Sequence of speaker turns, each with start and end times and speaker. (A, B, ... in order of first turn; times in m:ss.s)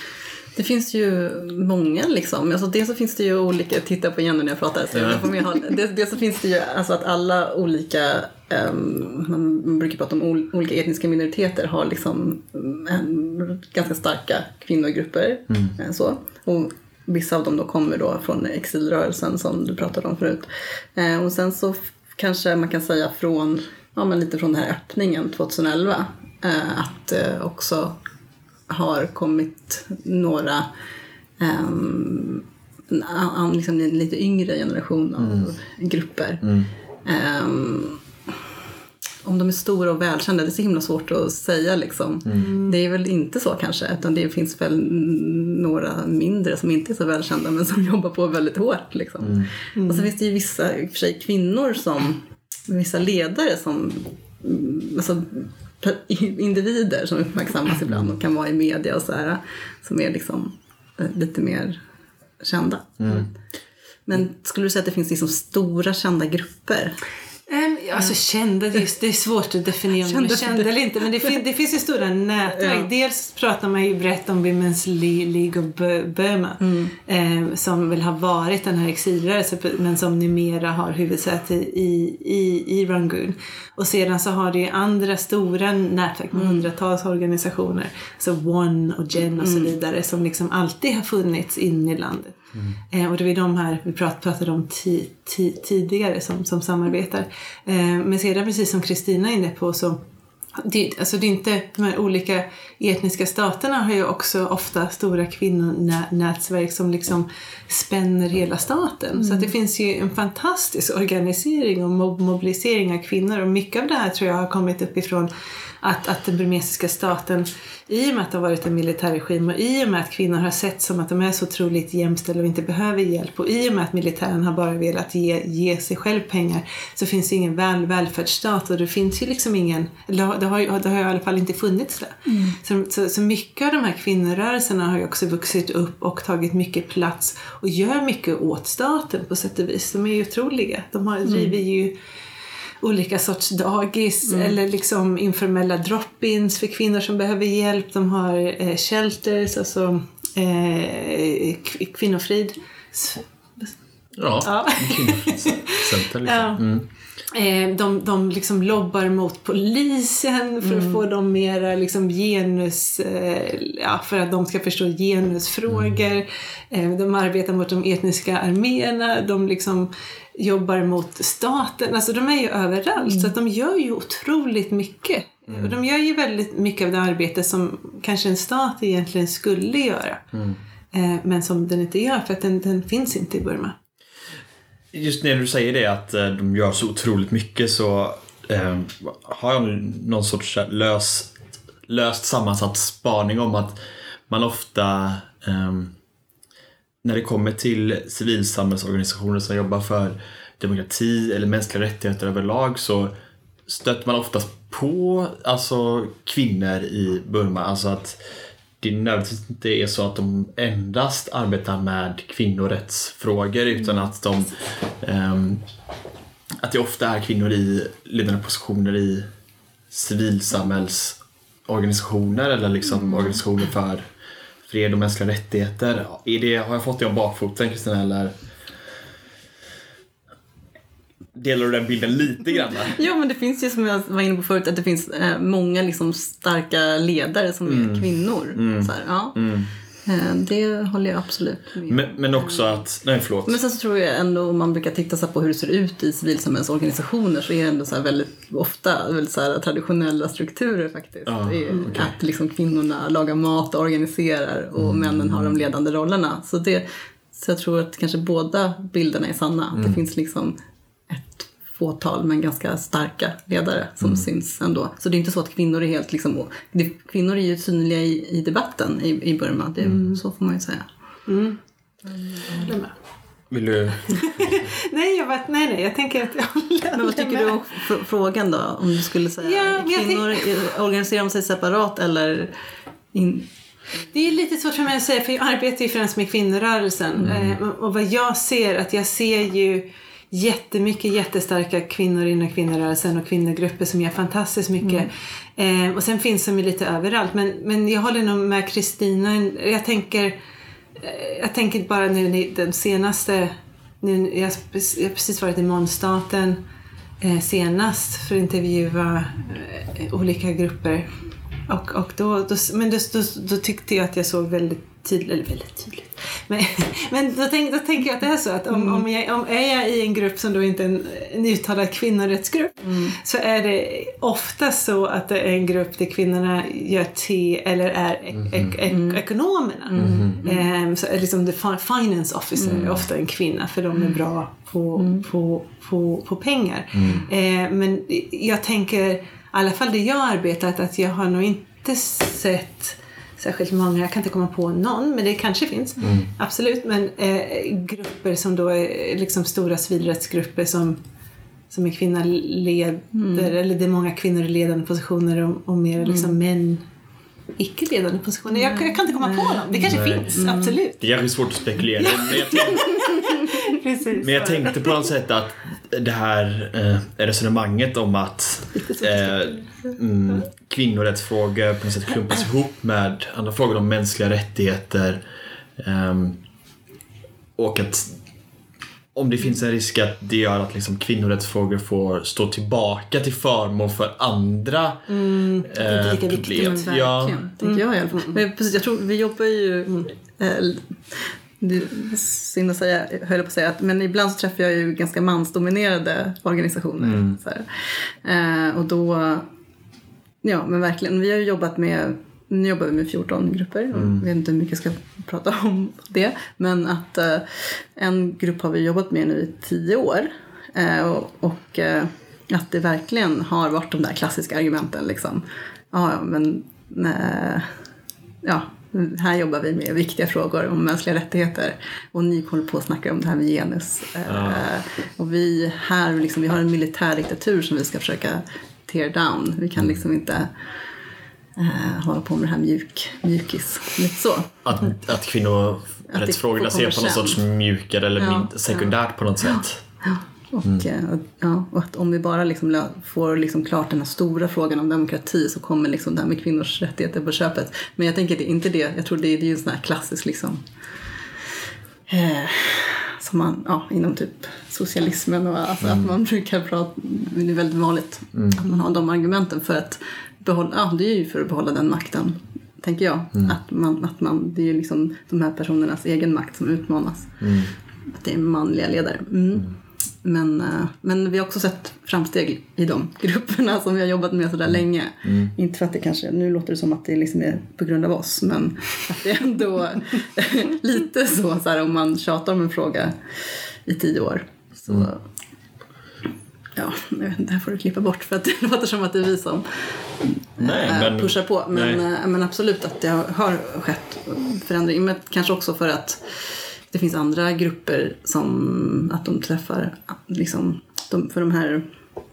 0:00.6-0:28.0 A
0:04.9-0:05.3 B
0:28.7-0:30.7 A
0:31.4-0:38.0 A
0:35.2-0:35.5 B
0:36.4-0:36.7 B
0:39.2-1:01.8 A
0:42.4-0:42.7 C
0:49.2-0:49.5 B
0:49.8-0:50.1 C
0:57.9-0:58.1 B
1:02.4-1:03.2 A
1:03.0-1:03.3 B
1:04.1-1:07.0 A
1:07.5-1:32.4 C
1:09.9-1:11.3 A
1:12.5-1:12.9 A
1:16.6-1:16.9 A
1:26.3-1:26.7 A
1:29.4-1:29.7 A
1:32.9-1:40.0 C
1:40.6-1:55.3 C
1:49.2-1:49.5 A
1:55.8-2:21.9 C
2:12.3-2:12.6 A
2:21.3-2:21.5 A
2:22.8-2:33.7 C
2:24.3-2:24.5 A
2:34.2-2:36.9 B
2:34.4-2:36.6 C
2:37.3-3:00.2 C
2:40.6-2:41.0 A
2:45.7-2:46.0 B
2:53.1-2:53.3 A
2:55.5-2:55.8 B
3:00.3-3:00.6 B
3:00.9-3:03.8 C
3:04.9-3:11.3 B
3:11.9-3:15.9 B
3:17.0-3:23.1 B
3:23.7-3:28.2 B
3:28.8-3:35.6 B
3:36.6-3:39.3 B
3:39.9-3:44.1 B
3:43.1-3:43.3 A
3:44.7-3:48.3 B
3:51.4-3:53.0 B
3:52.9-3:59.5 A
3:57.6-3:59.7 B
4:00.1-4:02.8 A
4:01.9-4:03.6 B
4:03.5-4:20.6 A
4:11.3-4:12.2 B
4:14.8-4:15.6 B
4:19.7-4:20.0 B
4:21.1-4:30.9 A
4:31.3-4:31.6 C
4:32.3-4:32.6 A
4:32.5-4:32.9 C
4:33.5-4:34.6 B
4:34.1-4:37.6 C
4:36.9-4:42.5 A
4:39.4-4:40.5 C
4:43.1-4:43.5 A
4:44.1-5:00.4 C
4:47.2-4:47.6 B
4:54.8-4:55.1 A
5:01.0-5:06.6 C
5:07.2-5:11.1 C
5:11.7-5:51.0 C
5:18.7-5:19.0 A
5:22.8-5:23.1 A
5:28.4-5:28.7 B
5:28.9-5:29.2 A
5:29.9-5:30.4 B
5:29.9-5:30.6 A
5:32.6-5:33.0 B
5:35.0-5:35.2 A
5:36.9-5:37.2 B
5:46.0-5:46.3 B
5:51.7-5:56.8 C
5:53.1-5:53.5 A
5:56.0-5:56.4 A
5:57.6-6:01.0 C
5:58.5-6:00.8 A
5:59.9-6:00.3 B
6:01.0-6:03.0 B
6:02.0-6:04.9 C
6:04.2-6:15.2 B
6:08.9-6:09.4 C
6:15.8-6:16.4 B
6:17.6-6:18.2 B
6:19.1-6:27.4 B
6:25.1-6:26.8 C
6:26.5-6:39.5 A
6:27.6-6:28.3 C
6:37.0-6:37.4 B
6:40.4-6:57.7 A
6:43.9-6:44.2 B
6:58.4-7:10.5 A
7:04.3-7:04.7 B
7:11.6-7:14.7 A
7:14.6-7:19.8 B
7:16.1-7:17.4 A
7:18.2-7:30.6 A
7:32.1-7:47.5 A
7:38.4-7:38.6 B
7:47.4-7:47.7 B
7:48.1-8:05.2 A
7:55.2-7:55.5 B
8:06.8-8:16.2 A
8:10.6-8:12.0 B
8:16.9-8:21.8 A